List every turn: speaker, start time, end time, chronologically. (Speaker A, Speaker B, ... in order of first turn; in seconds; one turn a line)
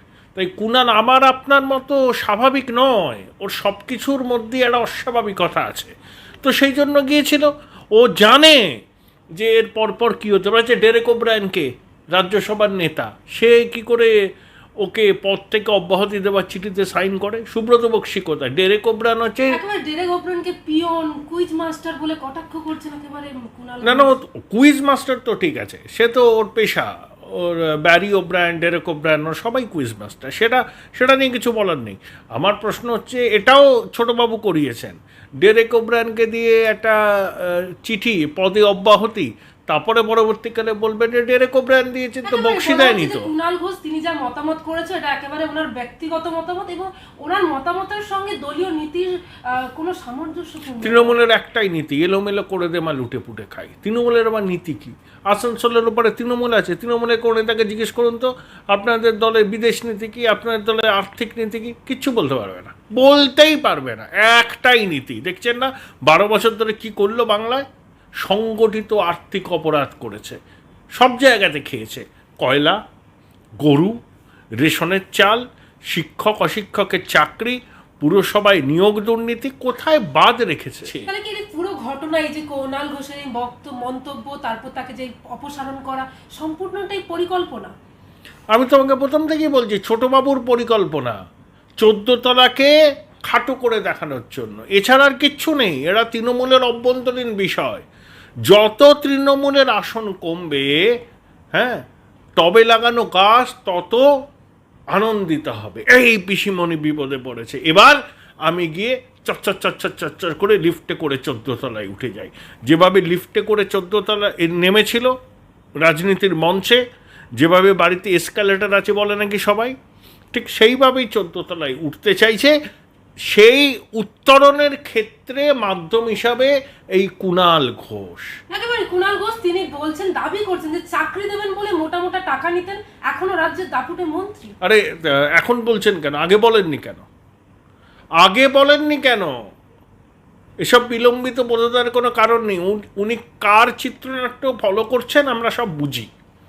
Speaker A: 0.4-5.9
Speaker A: 6.4-8.7
Speaker A: 9.4-14.1
Speaker A: 14.8-19.6
Speaker B: 19.4-24.1
Speaker A: 23.8-43.3
Speaker B: 42.2-51.2
Speaker A: 50.8-67.7
Speaker A: 68.2-70.4
Speaker A: 71.0-72.8
Speaker A: 73.6-74.0
Speaker A: 74.6-81.1
Speaker B: 81.1-87.7
Speaker A: 88.5-91.2
Speaker A: 91.8-92.7
Speaker A: 93.3-97.8
Speaker A: 98.5-100.7
Speaker A: 101.5-101.8
Speaker A: 102.4-104.0
Speaker A: 104.9-115.1
Speaker A: 115.8-116.8
Speaker A: 117.4-119.7
Speaker A: 120.3-122.5
Speaker A: 123.3-128.3
Speaker B: 128.5-134.5
Speaker A: 134.6-137.1
Speaker A: 138.2-139.3
Speaker A: 140.6-146.1